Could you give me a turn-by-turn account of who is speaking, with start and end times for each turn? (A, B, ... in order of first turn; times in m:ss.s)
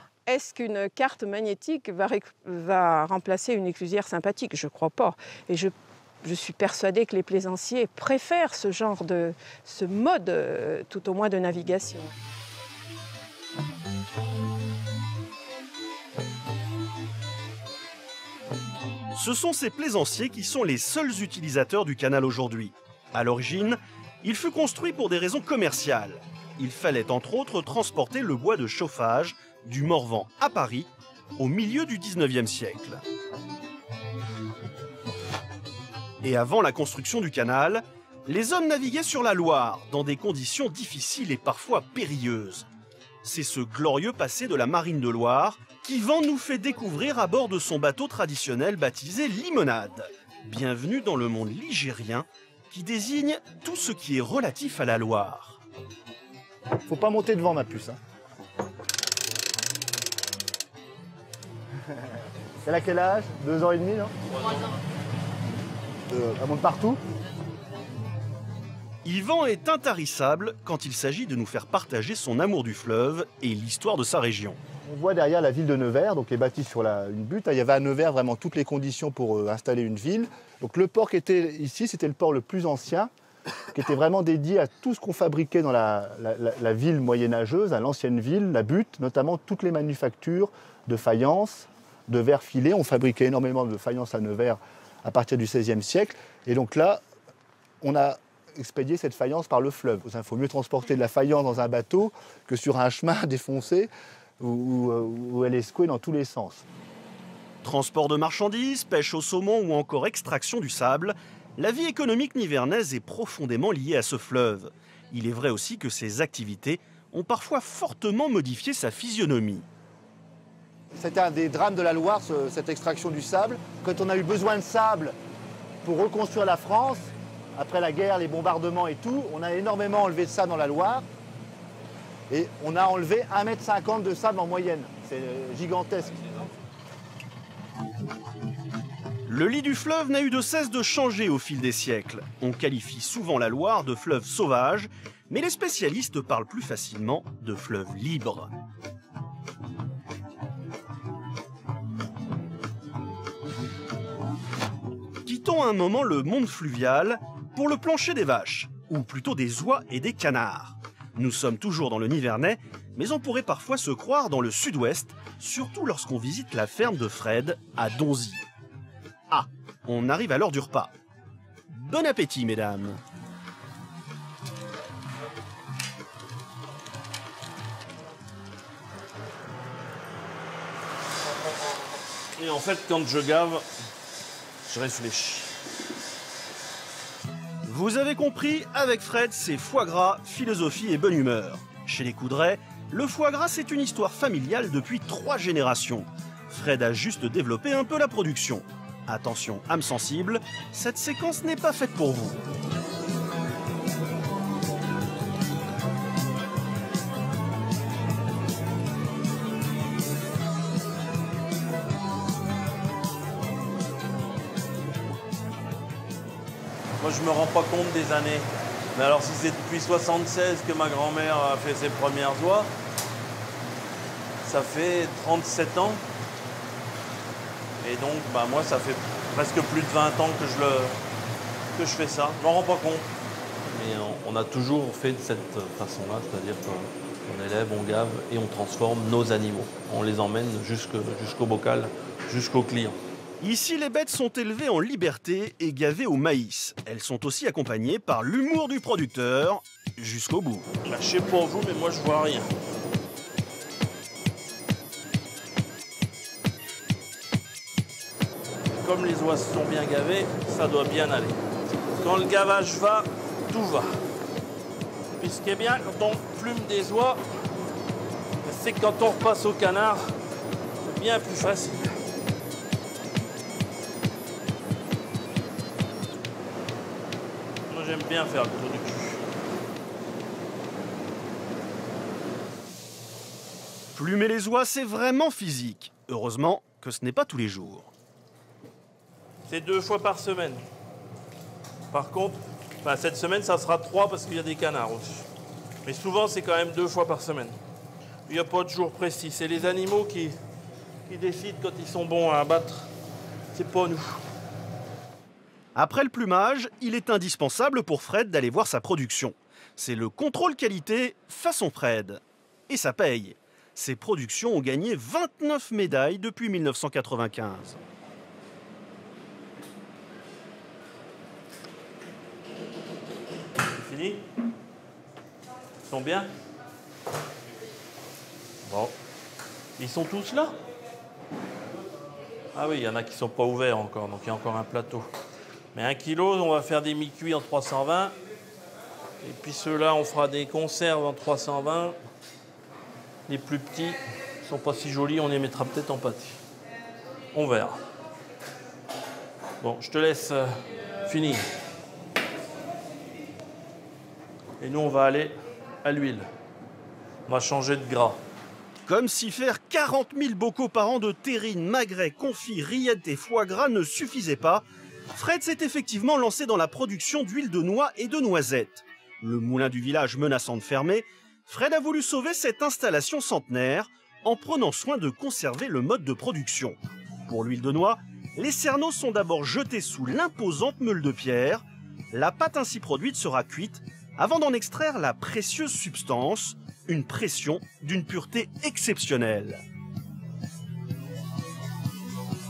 0:00.2-0:12.1 A
0:19.1-0:33.0 B
0:36.2-0:42.7 B
0:43.2-0:55.6 B
0:56.9-0:58.0 C
1:02.6-1:04.1 C
1:06.1-1:07.0 C
1:09.0-1:14.6 B
1:14.8-1:23.1 C
1:23.7-1:37.0 C
1:37.8-1:46.6 C
1:47.6-1:59.6 B
2:00.9-2:05.2 C
2:05.8-2:11.0 C
2:12.3-2:16.3 C
2:19.3-2:28.5 B
2:35.2-2:48.4 B
2:49.3-2:50.9 B
2:51.7-2:53.0 B
3:02.4-3:03.6 D
3:04.6-3:05.5 D
3:07.6-3:22.4 B
3:37.0-3:42.7 D
3:44.4-3:46.0 D
3:47.8-3:51.0 D
3:51.7-3:53.1 D
3:53.7-4:03.0 D
4:03.4-4:10.7 B
4:10.9-4:12.5 D
4:18.7-4:21.4 D
4:21.9-4:24.0 D
4:25.2-4:27.2 D
4:28.4-4:30.0 D
4:30.8-4:31.9 D
4:37.7-4:39.2 D
4:43.9-4:47.9 B
4:49.5-4:50.6 D
4:51.9-4:55.2 D
4:55.8-4:57.6 D
4:58.3-5:00.4 D
5:01.1-5:02.9 D
5:03.5-5:04.2 D
5:05.7-5:17.8 B
5:23.7-5:24.2 D
5:25.9-5:26.3 D
5:28.6-5:28.9 D
5:29.8-5:30.5 D
5:32.5-5:35.1 D
5:35.7-5:38.1 D
5:39.2-5:42.0 D
5:43.3-5:46.4 D
5:47.3-5:47.8 D
5:49.6-5:51.4 D
5:54.6-5:56.3 D
5:57.3-5:58.2 D
5:58.8-6:29.6 B